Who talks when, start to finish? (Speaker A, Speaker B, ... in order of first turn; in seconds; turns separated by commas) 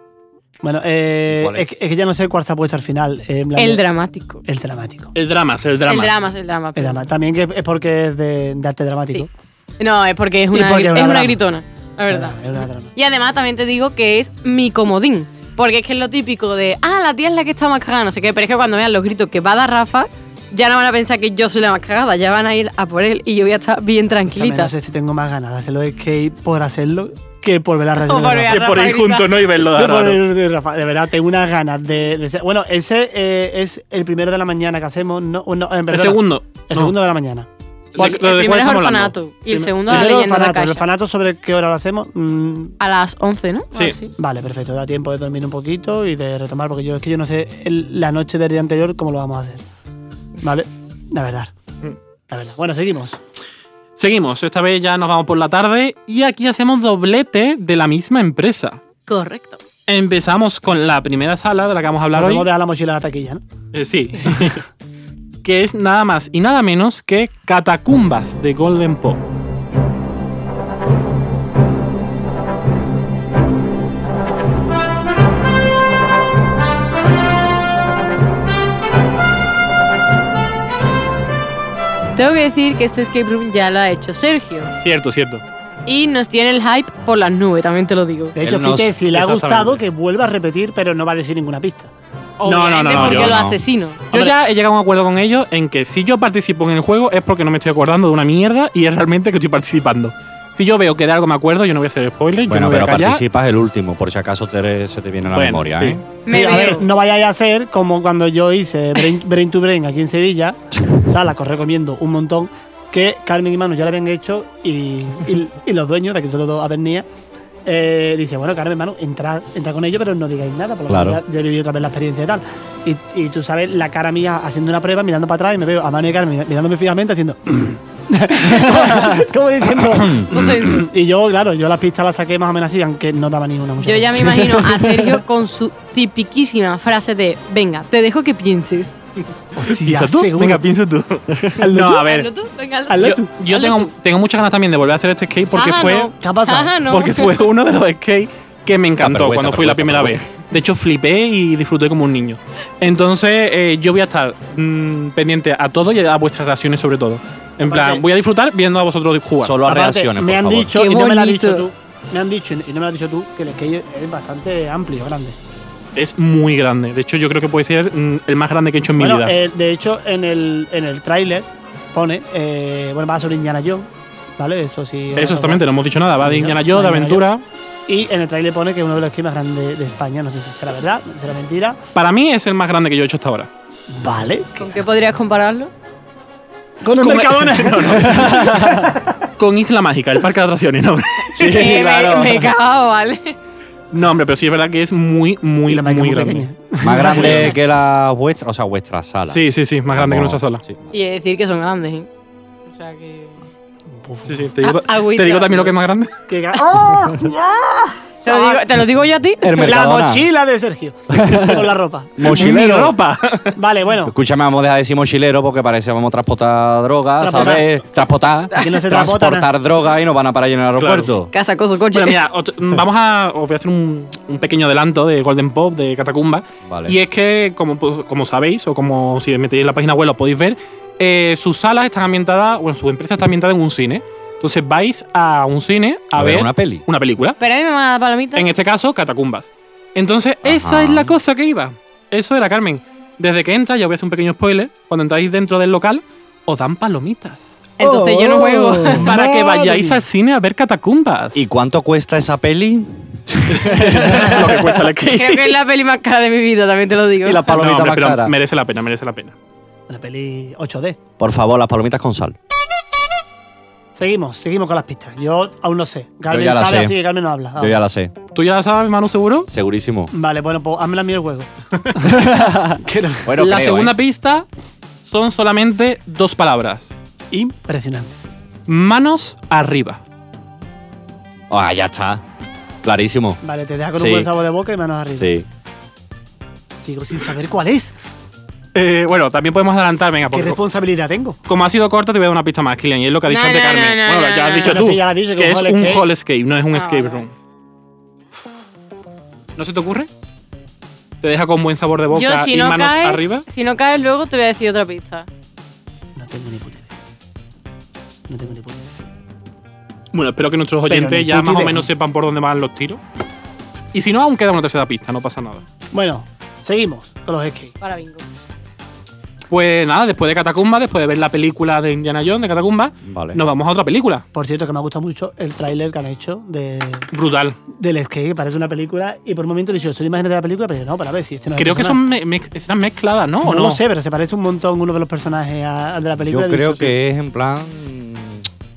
Speaker A: 0.6-3.8, Speaker B: 1.3-1.7, Speaker C: 3.6-4.4, Speaker A: 4.5-5.1, Speaker D: 5.2-6.2, Speaker C: 5.9-7.0, Speaker A: 6.8-9.3, Speaker C: 9.8-12.4, Speaker A: 10.5-11.4, Speaker A: 12.1-12.9, Speaker C: 12.9-24.8, Speaker A: 24.3-28.6, Speaker C: 28.0-29.3, Speaker D: 28.5-30.3, Speaker A: 29.6-37.5, Speaker D: 35.9-37.0, Speaker D: 37.9-40.2, Speaker C: 38.0-40.9, Speaker A: 39.9-42.8, Speaker C: 42.8-44.1, Speaker A: 44.2-49.6, Speaker A: 50.4-51.5, Speaker A: 52.3-53.2, Speaker D: 54.0-58.8, Speaker C: 59.1-59.6, Speaker D: 59.9-62.5, Speaker A: 62.1-63.4, Speaker D: 63.7-64.6, Speaker D: 65.4-69.2, Speaker C: 82.2-84.7, Speaker D: 84.8-85.4, Speaker C: 85.9-88.3, Speaker A: 88.3-91.9, Speaker B: 88.4-89.0, Speaker D: 89.1-89.8, Speaker D: 92.4-93.4, Speaker C: 92.4-94.0, Speaker B: 92.9-93.6, Speaker D: 94.1-103.2, Speaker B: 102.5-106.0, Speaker D: 105.3-106.0, Speaker C: 106.3-106.9, Speaker A: 106.3-117.1, Speaker A: 117.7-135.0, Speaker B: 120.9-121.2, Speaker B: 128.5-129.2, Speaker B: 129.8-130.3, Speaker C: 130.3-130.8, Speaker C: 133.8-138.9, Speaker A: 139.6-140.6, Speaker D: 139.7-142.3, Speaker A: 141.6-142.1, Speaker C: 142.0-143.9, Speaker A: 142.9-143.3, Speaker D: 143.0-146.1, Speaker C: 145.5-147.3, Speaker A: 146.2-146.8, Speaker D: 146.9-159.6, Speaker B: 149.0-150.2, Speaker A: 157.6-158.0, Speaker B: 159.4-160.8, Speaker A: 159.7-165.4, Speaker C: 160.8-161.7, Speaker D: 165.9-169.3, Speaker A: 169.0-175.6, Speaker D: 175.2-177.4, Speaker A: 176.2-177.2, Speaker A: 177.9-181.8, Speaker D: 181.9-183.5, Speaker A: 183.9-184.8, Speaker C: 184.6-185.7, Speaker A: 186.8-189.1, Speaker D: 187.0-191.7, Speaker B: 188.3-188.6, Speaker B: 191.3-192.5, Speaker C: 191.4-193.4, Speaker D: 193.9-197.6, Speaker A: 195.7-197.6, Speaker B: 196.8-200.8, Speaker D: 199.3-200.6, Speaker C: 200.9-202.1, Speaker C: 202.7-203.4, Speaker A: 203.9-204.5, Speaker D: 204.3-206.1, Speaker C: 204.6-205.7, Speaker A: 206.3-208.6, Speaker C: 208.2-209.6, Speaker B: 209.4-210.3, Speaker A: 209.6-212.5, Speaker B: 211.2-212.9, Speaker D: 212.2-213.6, Speaker A: 213.6-214.1, Speaker B: 214.0-221.3, Speaker A: 217.2-217.7, Speaker C: 218.5-218.8, Speaker A: 218.6-219.5, Speaker D: 220.8-221.1, Speaker C: 221.3-222.2, Speaker D: 221.9-237.4, Speaker B: 226.7-227.0, Speaker B: 236.1-236.8, Speaker C: 237.4-238.5, Speaker D: 238.3-247.6, Speaker B: 240.4-241.1, Speaker C: 247.8-249.1, Speaker A: 247.8-250.0, Speaker B: 247.8-249.0, Speaker D: 249.0-251.4, Speaker B: 251.3-254.7, Speaker D: 253.5-255.6, Speaker A: 254.1-254.5, Speaker C: 255.1-257.5, Speaker B: 257.2-258.3, Speaker D: 257.5-259.3, Speaker A: 259.9-261.0, Speaker B: 261.2-262.4, Speaker A: 264.0-267.8, Speaker B: 266.3-267.0, Speaker B: 267.6-268.1, Speaker D: 268.3-269.5, Speaker B: 269.5-270.1, Speaker A: 270.1-273.3, Speaker B: 272.2-273.9, Speaker D: 273.4-274.5, Speaker D: 275.1-276.9, Speaker A: 277.3-278.1, Speaker D: 278.7-280.0, Speaker B: 281.5-282.2, Speaker B: 282.8-283.4, Speaker A: 283.4-285.3, Speaker B: 283.9-284.3, Speaker B: 285.1-285.5, Speaker A: 286.8-288.0, Speaker D: 288.8-290.6, Speaker A: 290.3-291.4, Speaker D: 291.5-297.3, Speaker C: 293.3-294.8, Speaker A: 294.6-296.1, Speaker C: 296.7-297.2, Speaker D: 299.6-300.1, Speaker D: 301.2-303.4, Speaker C: 302.1-305.3, Speaker A: 306.2-306.9, Speaker A: 308.3-308.9, Speaker D: 310.1-313.0, Speaker A: 310.9-311.9, Speaker D: 313.9-315.6, Speaker A: 315.9-317.8, Speaker C: 317.8-318.2, Speaker D: 319.5-324.2, Speaker B: 323.1-323.4, Speaker A: 324.3-327.1, Speaker D: 327.1-327.6, Speaker A: 327.8-332.0, Speaker D: 331.6-333.8, Speaker A: 333.4-336.9, Speaker B: 336.2-338.5